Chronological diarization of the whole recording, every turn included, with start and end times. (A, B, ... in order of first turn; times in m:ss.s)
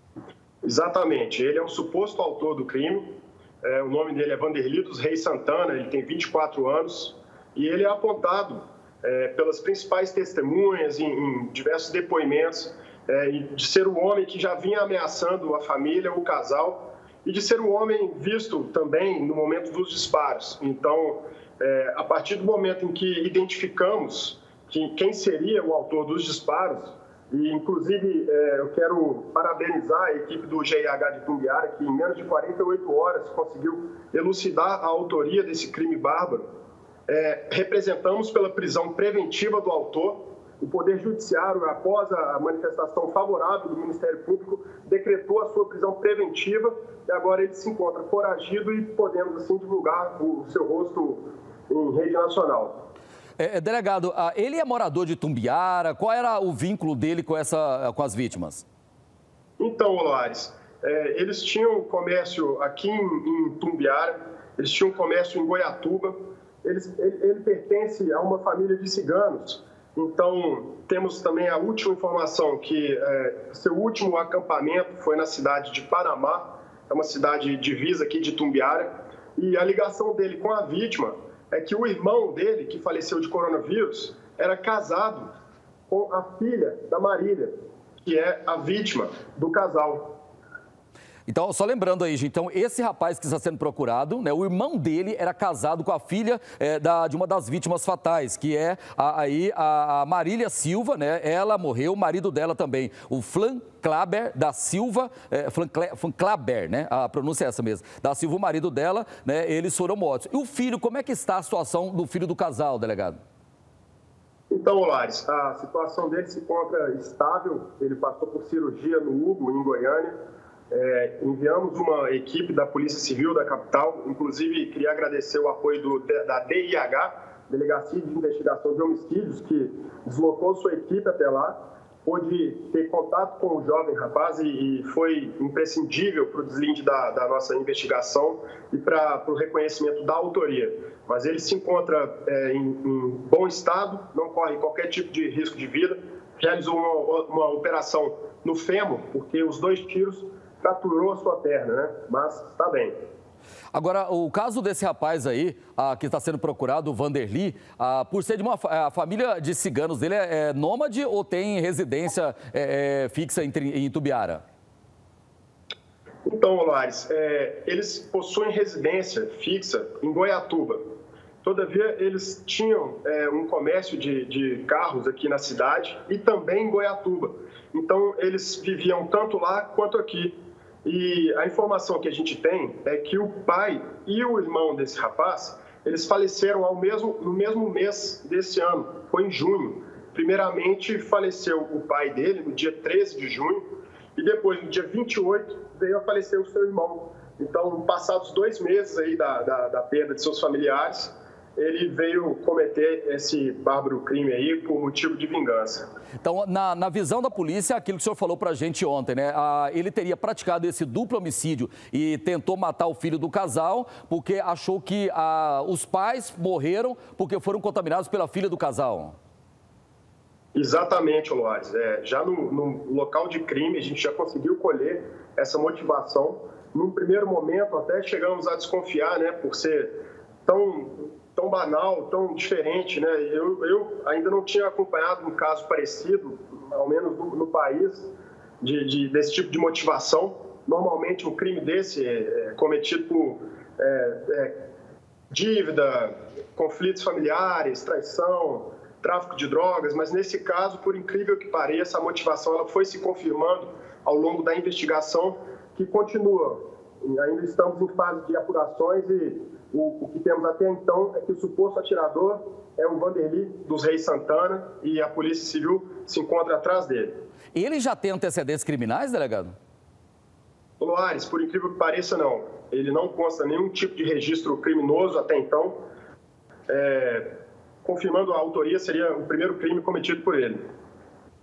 0:00.6-0:03.0 A
0:03.6-0:36.4 A
0:37.1-0:52.8 A
0:53.4-0:58.7 B
0:59.6-1:25.3 A
1:25.9-1:30.1 A
1:31.3-1:53.2 B
1:54.5-2:00.1 A
2:00.7-2:33.0 A
2:33.7-2:44.4 B
2:46.3-2:50.8 A
2:51.4-3:13.6 A
3:14.2-3:25.9 A
3:26.2-3:39.2 B
3:40.6-3:50.0 A
3:50.5-4:04.6 A
4:05.3-4:27.1 A
4:27.5-4:29.6 B
4:30.8-4:35.8 A
4:36.7-4:37.3 A
4:37.8-4:40.6 A